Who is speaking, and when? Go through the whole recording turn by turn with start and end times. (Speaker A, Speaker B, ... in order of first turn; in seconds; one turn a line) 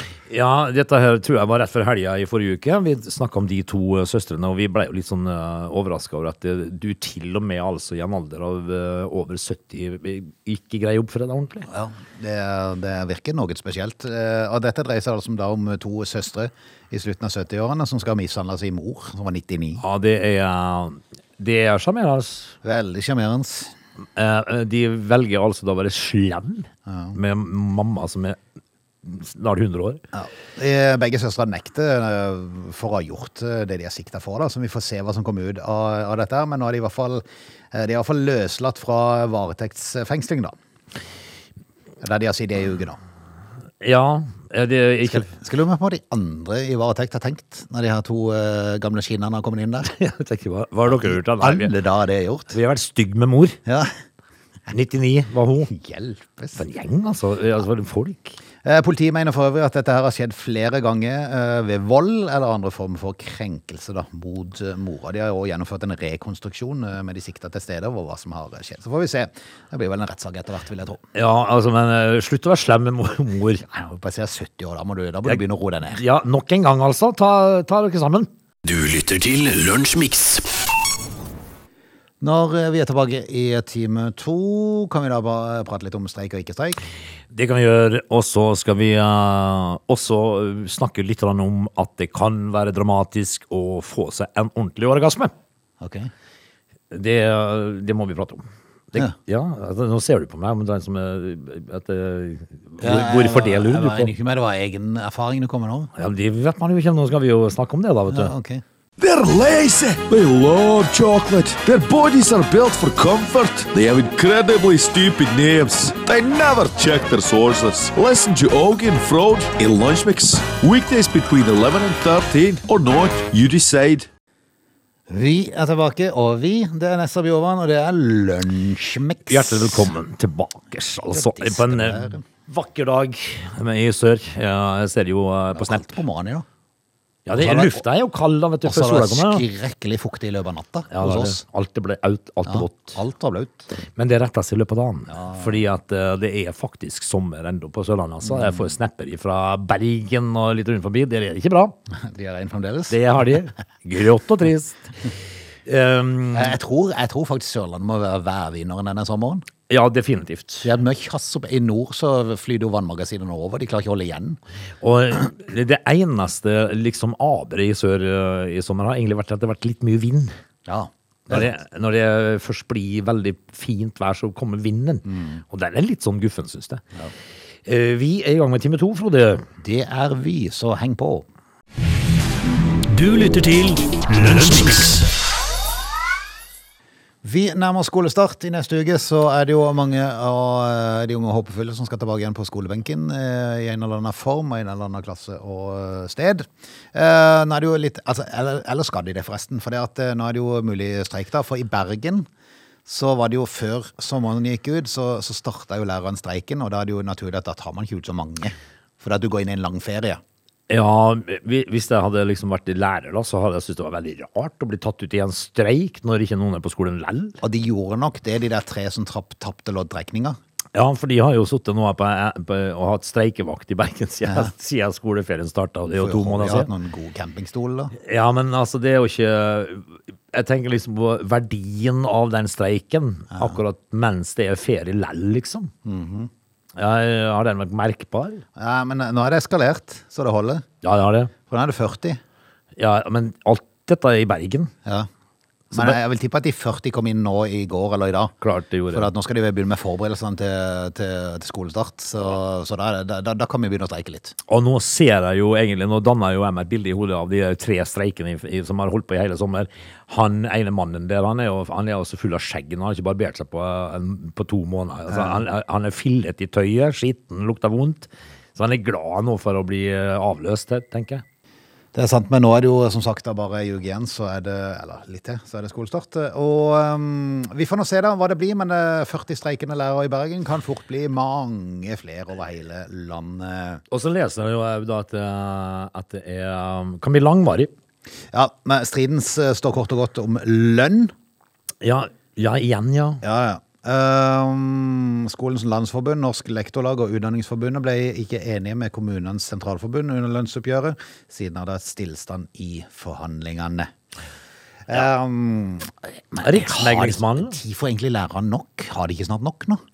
Speaker A: 0.3-11.7
Speaker B: 11.7-19.8
Speaker A: 19.8-22.6
Speaker B: 22.6-23.7
Speaker A: 24.1-28.4
Speaker B: 26.9-27.2
Speaker A: 29.0-30.0
Speaker B: 30.1-40.5
Speaker B: 42.0-43.0
Speaker A: 43.8-45.3
Speaker B: 45.0-49.9
Speaker A: 49.9-51.7
Speaker B: 50.9-52.6
Speaker A: 52.5-53.6
Speaker B: 53.6-53.9
Speaker A: 54.7-55.7
Speaker B: 55.7-56.6
Speaker A: 56.5-58.4
Speaker B: 58.6-71.0
Speaker A: 71.1-73.6
Speaker B: 73.7-76.0
Speaker A: 75.2-78.3
Speaker C: 78.6-80.5
Speaker B: 82.2-86.8
Speaker A: 87.3-95.3
Speaker B: 95.8-96.1
Speaker A: 96.9-104.1
Speaker B: 102.8-105.9
Speaker A: 106.0-108.3
Speaker B: 108.1-108.6
Speaker D: 109.0-124.1
Speaker B: 125.1-129.9
Speaker A: 129.3-136.0
Speaker B: 131.1-132.2
Speaker B: 135.5-136.4
Speaker A: 137.2-139.4
Speaker B: 137.3-137.8
Speaker B: 138.6-141.4
Speaker A: 140.9-142.9
Speaker B: 142.4-143.7
Speaker A: 143.9-151.8
Speaker B: 145.1-145.6
Speaker B: 148.2-148.7
Speaker B: 151.9-153.0
Speaker A: 152.9-154.9
Speaker A: 155.7-156.6
Speaker B: 156.3-159.4
Speaker A: 159.7-160.7
Speaker B: 160.6-164.4
Speaker A: 164.8-170.3
Speaker B: 170.7-171.5
Speaker A: 171.3-176.8
Speaker B: 175.1-175.4
Speaker A: 177.6-179.4
Speaker B: 179.6-181.2
Speaker C: 182.9-185.1
Speaker B: 187.2-202.3
Speaker B: 202.8-210.2
Speaker A: 210.7-217.4
Speaker B: 217.4-220.4
Speaker A: 220.7-226.7
Speaker B: 225.9-227.9
Speaker A: 228.0-235.7
Speaker B: 233.3-233.6
Speaker B: 235.8-236.3
Speaker A: 236.8-238.4
Speaker B: 238.6-240.6
Speaker A: 240.8-241.3
Speaker B: 241.5-242.2
Speaker A: 242.8-244.7
Speaker B: 245.7-248.3
Speaker A: 248.4-249.1
Speaker B: 248.9-254.3
Speaker A: 254.5-271.2
Speaker B: 265.1-265.4
Speaker B: 271.9-283.8
Speaker A: 283.9-287.7
Speaker B: 288.3-291.1
Speaker A: 291.8-293.2
Speaker B: 293.2-303.9
Speaker B: 304.9-309.8
Speaker A: 306.4-307.6